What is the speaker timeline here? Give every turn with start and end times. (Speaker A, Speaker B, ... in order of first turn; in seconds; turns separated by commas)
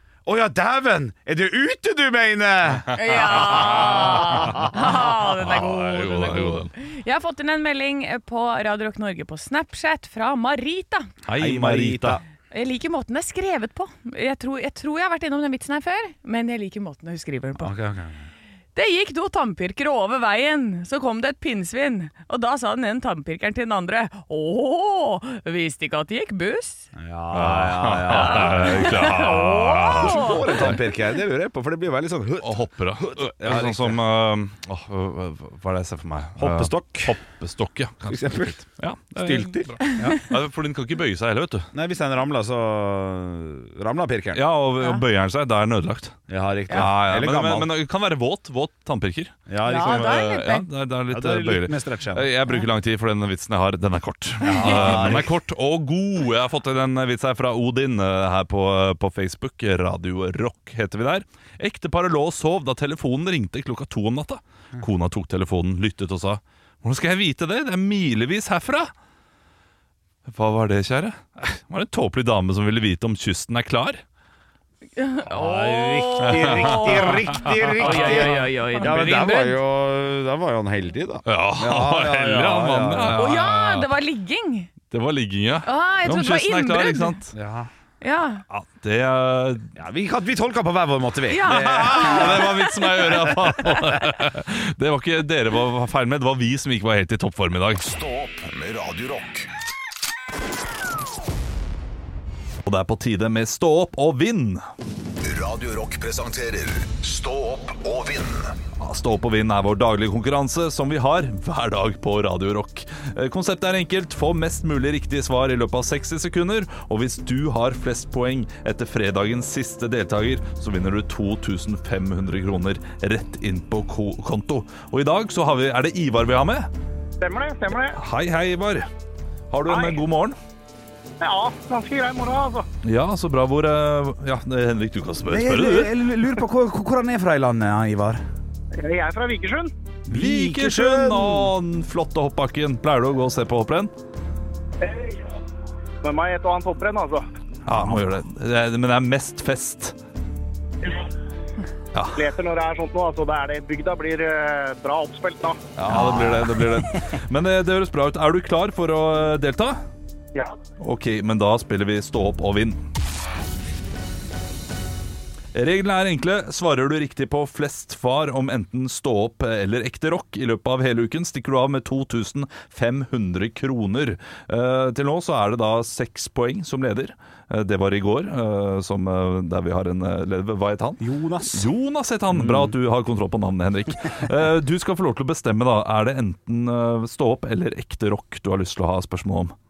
Speaker A: 0.2-4.7, Speaker B: 2.9-11.1, Speaker C: 3.1-6.7, Speaker C: 11.2-12.2, Speaker A: 11.3-12.2, Speaker B: 12.5-17.7, Speaker A: 17.6-18.3, Speaker B: 18.7-26.9, Speaker A: 26.9-34.0, Speaker C: 27.3-30.8, Speaker B: 28.1-30.8, Speaker C: 32.4-41.7, Speaker A: 36.4-37.1, Speaker A: 38.1-40.2, Speaker B: 39.8-40.1, Speaker A: 41.7-44.4, Speaker C: 44.3-46.2, Speaker A: 46.3-47.7, Speaker C: 46.7-68.9, Speaker A: 49.5-50.3, Speaker B: 49.6-50.6, Speaker A: 51.1-52.3, Speaker A: 54.4-55.3, Speaker B: 54.5-54.9, Speaker C: 70.2-74.0, Speaker B: 75.0-79.6, Speaker A: 75.3-83.2, Speaker C: 76.2-78.5, Speaker C: 81.2-83.9, Speaker B: 83.1-84.7, Speaker C: 84.9-87.3, Speaker B: 85.6-87.2, Speaker A: 87.3-87.7, Speaker B: 88.0-88.4, Speaker C: 88.5-89.7, Speaker A: 89.8-93.9, Speaker B: 91.3-92.8, Speaker C: 91.4-97.8, Speaker D: 97.8-99.5, Speaker C: 102.6-104.6, Speaker D: 105.2-108.6, Speaker C: 108.8-126.7, Speaker E: 127.2-128.0, Speaker C: 127.9-128.9, Speaker C: 129.5-130.4, Speaker E: 129.7-130.0, Speaker E: 131.2-132.7, Speaker C: 132.8-135.9, Speaker A: 135.2-138.2, Speaker E: 138.8-139.7, Speaker A: 140.1-141.5, Speaker C: 140.1-143.9, Speaker E: 144.8-145.3, Speaker E: 146.0-147.2, Speaker C: 147.7-149.9, Speaker A: 147.7-148.0, Speaker C: 151.9-152.2, Speaker E: 152.2-155.6, Speaker C: 155.8-159.8, Speaker A: 155.9-156.6, Speaker C: 160.8-162.8, Speaker C: 165.5-189.5, Speaker A: 181.0-181.7, Speaker A: 182.3-182.8